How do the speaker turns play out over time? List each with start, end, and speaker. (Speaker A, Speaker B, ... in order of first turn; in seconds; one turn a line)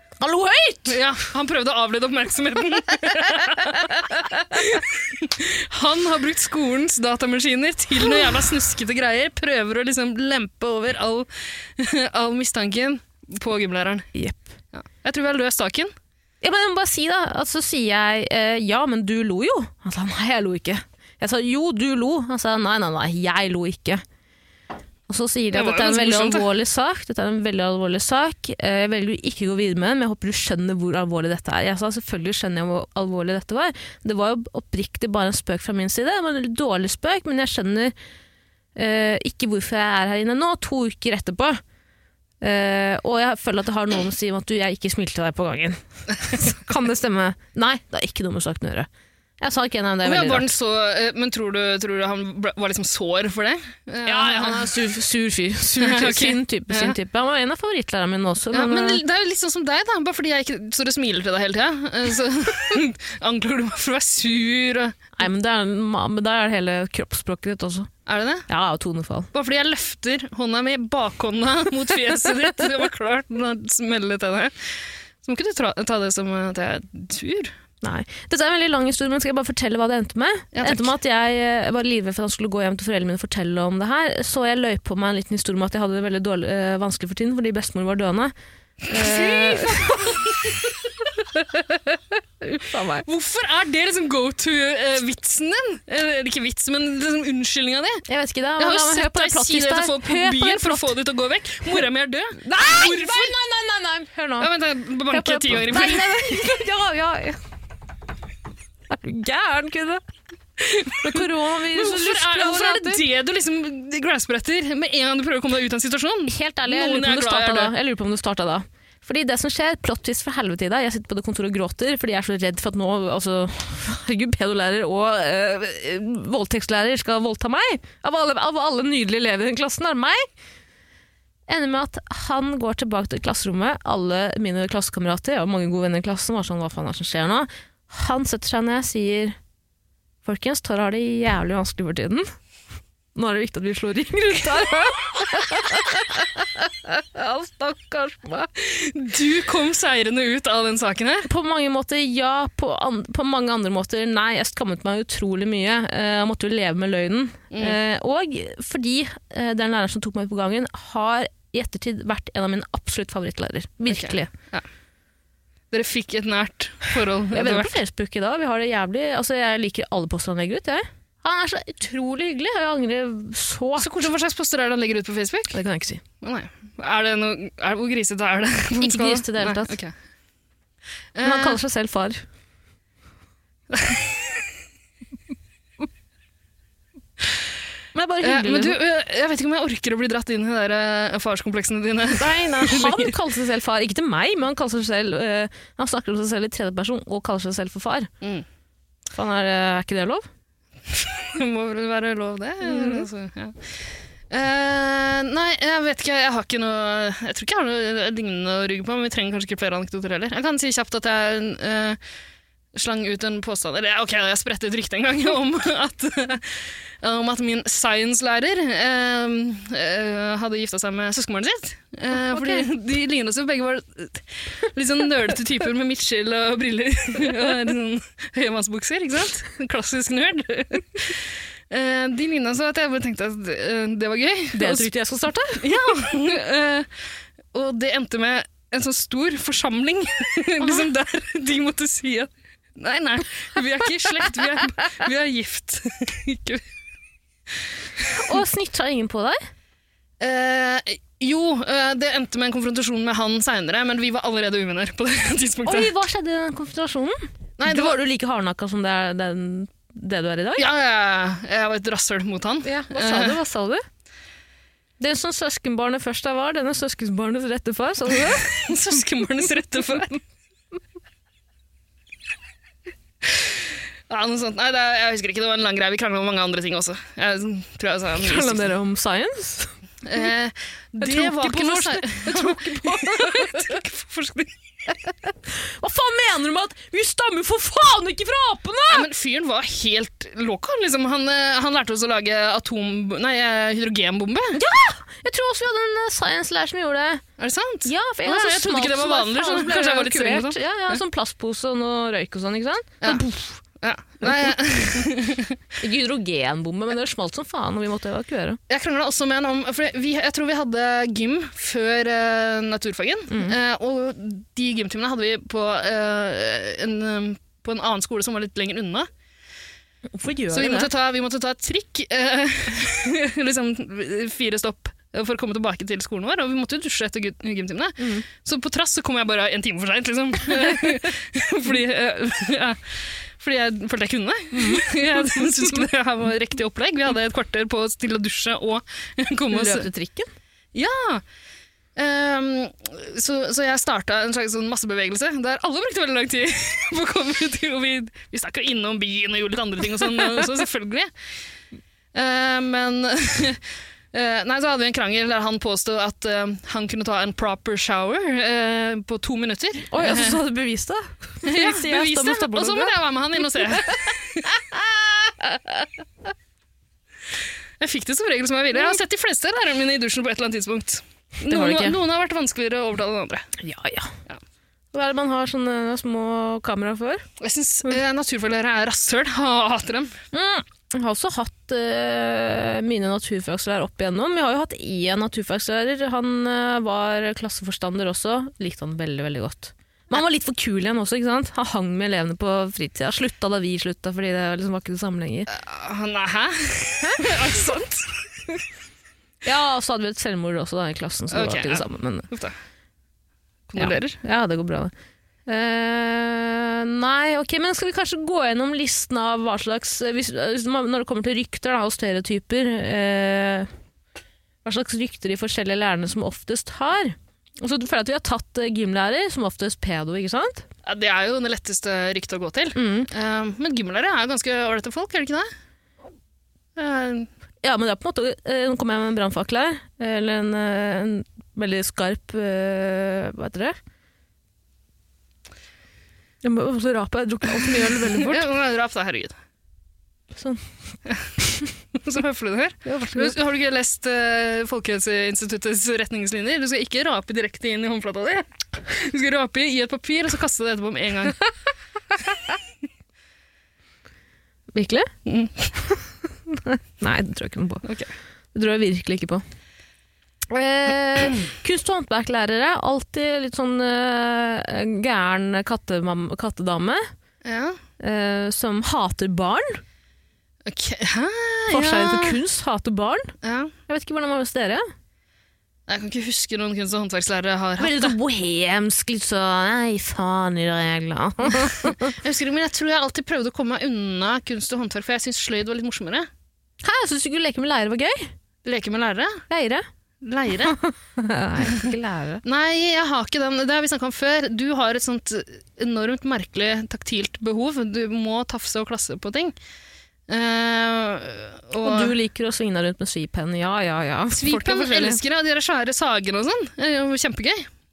Speaker A: 0.2-1.0
Speaker B: 0.9-14.1
Speaker A: 3.6-4.6
Speaker A: 14.1-14.5
Speaker B: 14.7-15.9
Speaker A: 16.4-24.0
Speaker A: 25.1-37.9
Speaker B: 25.5-26.5
Speaker A: 38.8-41.6
Speaker A: 42.4-48.9
Speaker A: 49.4-50.5
Speaker B: 50.0-54.7
Speaker A: 54.0-59.0
Speaker B: 55.8-57.0
Speaker B: 58.5-65.0
Speaker A: 65.2-67.9
Speaker B: 68.1-68.5
Speaker A: 68.5-69.3
Speaker B: 69.3-77.5
Speaker A: 77.8-88.3
Speaker B: 80.5-80.9
Speaker A: 88.9-90.3
Speaker B: 88.9-90.8
Speaker A: 92.4-93.1
Speaker B: 93.0-98.0
Speaker A: 98.1-101.0
Speaker B: 98.6-103.3
Speaker A: 102.4-104.5
Speaker B: 104.4-106.5
Speaker A: 105.1-107.4
Speaker A: 108.9-110.0
Speaker B: 110.6-117.7
Speaker A: 110.9-113.0
Speaker A: 116.3-130.3
Speaker A: 131.5-139.4
Speaker A: 140.2-142.3
Speaker A: 143.2-148.5
Speaker B: 148.6-151.3
Speaker A: 151.3-164.3
Speaker B: 157.5-157.8
Speaker B: 163.9-164.7
Speaker B: 165.7-167.8
Speaker A: 167.3-174.1
Speaker B: 173.8-175.6
Speaker A: 175.5-176.0
Speaker B: 176.2-179.9
Speaker A: 178.8-179.8
Speaker B: 181.2-181.6
Speaker A: 181.2-182.2
Speaker B: 183.7-184.3
Speaker A: 187.9-188.8
Speaker B: 188.2-193.1
Speaker A: 192.1-198.1
Speaker B: 198.2-198.5
Speaker A: 199.1-200.3
Speaker B: 200.9-203.8
Speaker A: 202.7-203.0
Speaker B: 204.3-212.0
Speaker B: 212.7-234.9
Speaker A: 222.3-222.7
Speaker A: 234.5-235.6
Speaker B: 235.6-246.7
Speaker A: 248.1-249.4
Speaker B: 250.2-255.9
Speaker A: 255.7-260.7
Speaker B: 257.6-258.0
Speaker B: 260.6-263.4
Speaker A: 262.6-263.8
Speaker A: 265.0-268.7
Speaker B: 268.3-270.2
Speaker B: 273.2-278.7
Speaker A: 278.2-279.7
Speaker B: 280.0-284.5
Speaker A: 281.0-283.7
Speaker A: 285.1-289.1
Speaker B: 288.9-294.6
Speaker A: 294.6-297.2
Speaker B: 297.4-301.0
Speaker A: 297.9-303.6
Speaker B: 303.8-305.6
Speaker A: 305.8-308.6
Speaker B: 308.7-319.1
Speaker A: 313.3-313.6
Speaker A: 320.1-320.9
Speaker B: 320.5-339.9
Speaker A: 328.0-328.3
Speaker A: 334.5-335.8
Speaker A: 339.5-340.3
Speaker B: 340.7-341.2
Speaker B: 342.0-351.1
Speaker B: 352.1-353.6
Speaker B: 354.1-360.4
Speaker A: 359.9-363.0
Speaker B: 361.4-364.5
Speaker A: 363.8-365.9
Speaker B: 367.8-373.5
Speaker A: 371.4-372.0
Speaker A: 373.6-374.1
Speaker A: 374.9-377.2
Speaker B: 377.4-380.2
Speaker A: 380.3-395.5
Speaker B: 395.5-398.5
Speaker A: 399.4-402.3
Speaker B: 401.3-402.6
Speaker B: 403.7-404.2
Speaker A: 403.8-404.9
Speaker A: 405.5-413.7
Speaker A: 414.6-420.7
Speaker B: 420.8-425.5
Speaker A: 422.8-423.1
Speaker B: 426.8-427.3
Speaker A: 427.6-433.8
Speaker A: 436.4-438.5
Speaker B: 437.8-439.4
Speaker A: 440.3-440.6
Speaker B: 441.9-451.4
Speaker A: 442.9-443.4
Speaker A: 454.7-455.1
Speaker B: 455.3-455.7
Speaker A: 455.8-457.9
Speaker B: 457.8-458.1
Speaker A: 458.5-459.4
Speaker A: 460.5-467.1
Speaker B: 467.4-467.8
Speaker A: 468.0-469.8
Speaker B: 470.6-472.4
Speaker A: 471.7-473.3
Speaker B: 473.4-473.7
Speaker A: 473.9-474.9
Speaker B: 475.9-478.1
Speaker A: 477.8-482.1
Speaker B: 481.5-486.3
Speaker A: 486.8-488.3
Speaker B: 488.6-489.4
Speaker A: 489.5-489.9
Speaker B: 490.2-490.8
Speaker A: 490.6-492.4
Speaker B: 491.6-491.9
Speaker B: 492.4-499.6
Speaker B: 500.3-502.1
Speaker A: 501.8-505.2
Speaker B: 504.3-507.7